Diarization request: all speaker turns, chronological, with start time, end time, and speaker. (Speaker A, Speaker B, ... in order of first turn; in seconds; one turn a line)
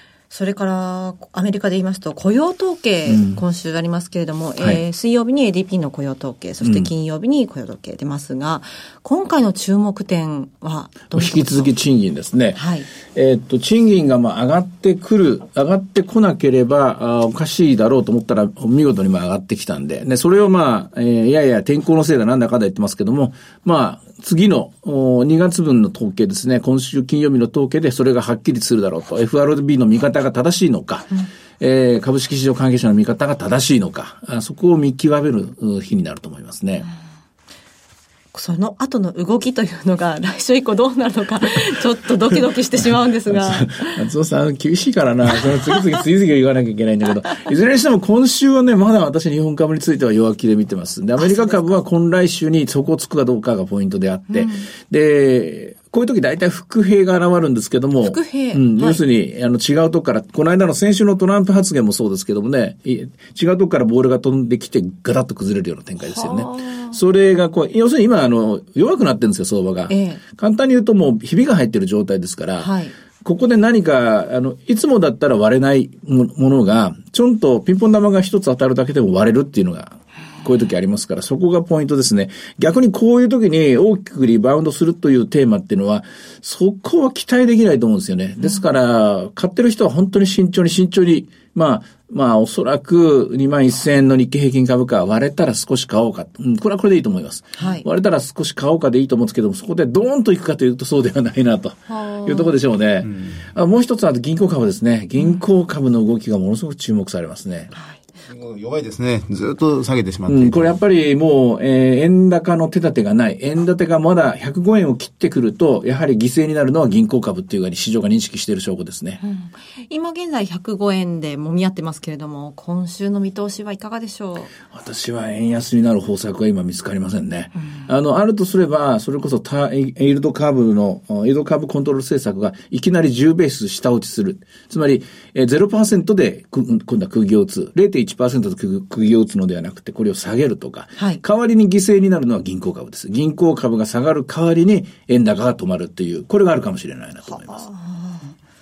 Speaker A: 0.3-11.7
Speaker B: 3.1-3.4
Speaker B: 6.6-6.9
Speaker B: 11.1-36.9
Speaker A: 12.5-12.9
Speaker A: 38.3-44.0
Speaker B: 43.3-72.7
Speaker A: 51.2-51.7
Speaker A: 54.3-54.6
Speaker A: 58.0-59.0
Speaker A: 66.0-67.0
Speaker A: 69.9-70.2
Speaker A: 72.6-72.9
Speaker B: 73.2-107.7
Speaker A: 97.6-97.8
Speaker A: 101.9-102.5
Speaker C: 103.0-103.4
Speaker A: 107.7-108.0
Speaker C: 108.3-110.8
Speaker B: 110.3-119.2
Speaker A: 119.2-124.5
Speaker B: 124.7-147.6
Speaker A: 147.3-148.3